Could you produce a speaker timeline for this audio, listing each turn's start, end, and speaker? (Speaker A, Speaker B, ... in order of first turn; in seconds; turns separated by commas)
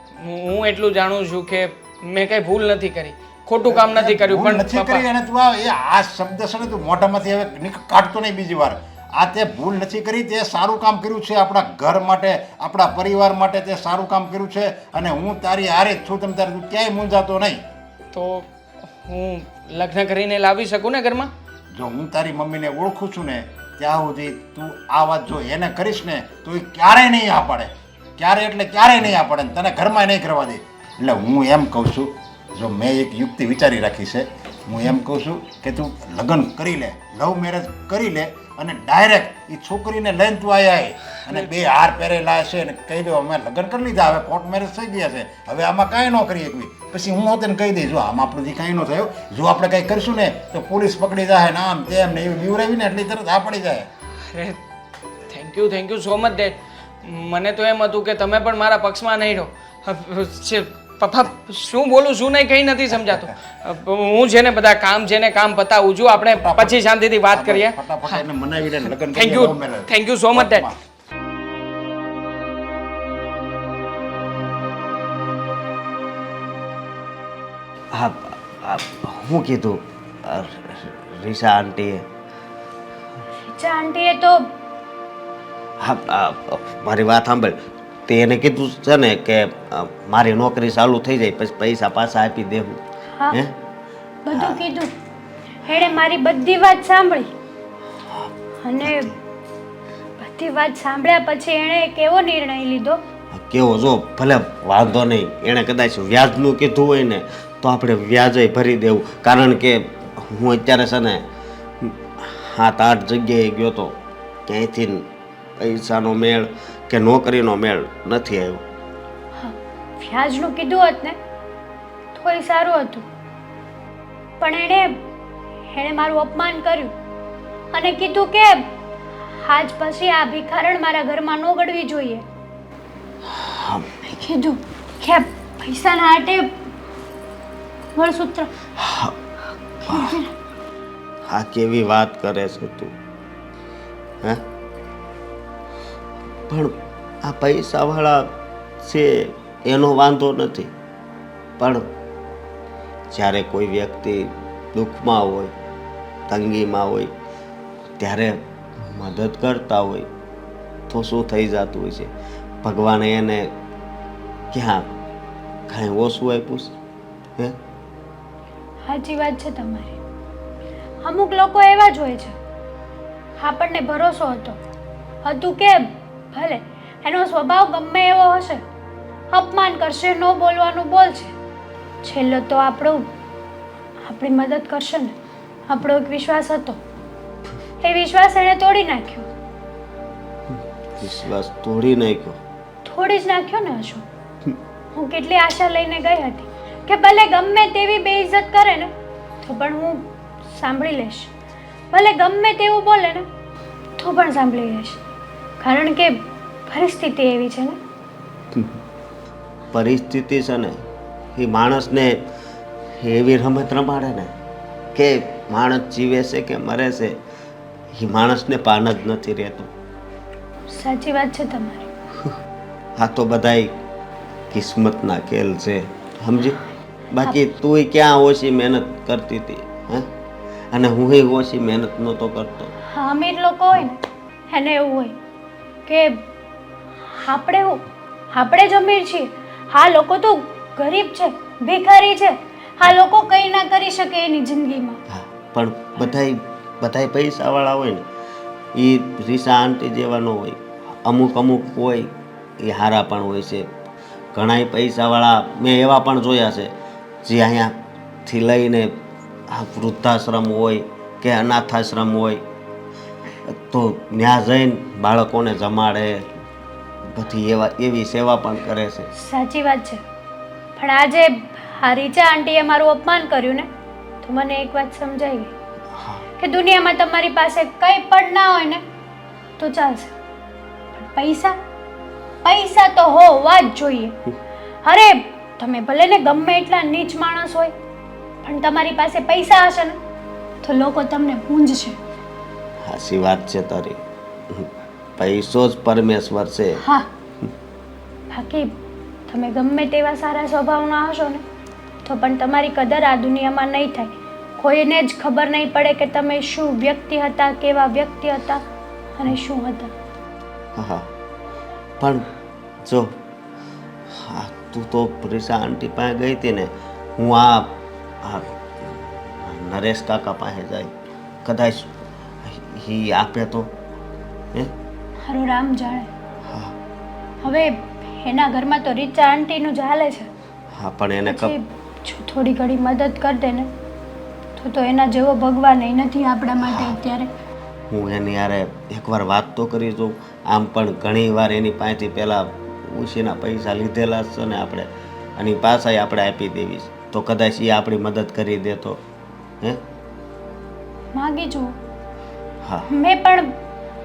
Speaker A: 0.2-5.0, Speaker B: 3.7-17.6, Speaker A: 18.1-18.5, Speaker A: 19.1-21.3, Speaker B: 21.8-53.9, Speaker A: 54.3-54.6, Speaker A: 55.3-68.2, Speaker B: 66.3-66.8, Speaker B: 67.3-70.7, Speaker A: 69.1-70.7, Speaker C: 77.9-82.1, Speaker D: 83.4-84.5, Speaker C: 85.8-92.8, Speaker C: 93.3-93.5, Speaker D: 94.2-94.9, Speaker C: 94.3-94.6, Speaker D: 95.7-97.3, Speaker D: 98.6-99.1, Speaker C: 98.8-99.2, Speaker D: 100.2-103.0, Speaker C: 103.3-111.2, Speaker C: 111.8-115.1, Speaker C: 115.6-118.6, Speaker D: 119.3-121.2, Speaker D: 122.1-123.0, Speaker D: 124.4-125.0, Speaker D: 125.7-126.9, Speaker D: 127.7-128.7, Speaker D: 129.4-132.2, Speaker C: 133.3-133.9, Speaker D: 134.0-136.5, Speaker D: 137.9-138.5, Speaker C: 138.8-139.1, Speaker D: 139.8-140.3, Speaker C: 139.9-140.2, Speaker C: 141.3-142.9, Speaker C: 146.5-150.7, Speaker C: 151.6-151.8, Speaker C: 153.1-155.5, Speaker C: 156.3-157.1, Speaker C: 158.0-160.1, Speaker C: 160.9-162.1, Speaker C: 162.6-163.5, Speaker C: 164.5-164.9, Speaker C: 165.7-166.7, Speaker D: 168.8-170.0, Speaker D: 171.0-172.3, Speaker D: 173.4-174.6, Speaker D: 175.2-178.6, Speaker D: 179.3-181.3, Speaker D: 182.0-183.1, Speaker D: 184.1-185.1, Speaker D: 185.7-186.8, Speaker D: 187.8-189.3, Speaker C: 191.0-192.4, Speaker D: 192.8-194.0, Speaker D: 194.9-198.9, Speaker D: 199.4-200.0, Speaker D: 200.6-201.3, Speaker D: 201.9-203.2, Speaker D: 204.0-205.0, Speaker D: 205.6-206.2, Speaker D: 206.7-207.8, Speaker C: 209.7-210.8, Speaker C: 211.3-212.2, Speaker C: 213.0-214.3, Speaker C: 214.9-217.2, Speaker C: 217.9-219.7, Speaker D: 220.7-221.9, Speaker C: 223.0-223.7, Speaker C: 224.5-230.1, Speaker C: 230.7-232.7, Speaker D: 232.9-235.1, Speaker D: 235.8-236.2, Speaker D: 237.2-245.0, Speaker C: 245.1-248.0, Speaker C: 248.7-253.7, Speaker C: 254.3-256.7, Speaker C: 257.2-259.0, Speaker C: 259.5-262.4, Speaker C: 263.5-266.4, Speaker C: 267.1-269.1, Speaker D: 269.1-270.0, Speaker D: 270.8-273.7, Speaker D: 274.2-275.5, Speaker D: 276.4-278.8, Speaker D: 279.6-280.1, Speaker D: 280.9-281.6, Speaker D: 282.4-284.2, Speaker D: 284.8-287.7, Speaker D: 288.4-290.0, Speaker D: 290.6-292.0, Speaker C: 292.8-294.0, Speaker C: 294.5-296.8, Speaker D: 298.3-298.7, Speaker D: 299.3-301.4, Speaker D: 302.0-308.6, Speaker D: 309.1-309.9, Speaker C: 310.7-311.1, Speaker C: 312.0-312.3, Speaker C: 312.8-313.2, Speaker C: 314.1-320.9, Speaker C: 321.4-323.7, Speaker D: 325.2-326.1, Speaker C: 326.5-326.7, Speaker D: 327.4-330.3, Speaker C: 330.7-331.6, Speaker D: 331.3-333.7, Speaker D: 334.6-337.3, Speaker C: 336.6-337.0, Speaker C: 337.9-349.0, Speaker D: 351.1-351.7, Speaker C: 352.6-352.9, Speaker D: 352.9-353.5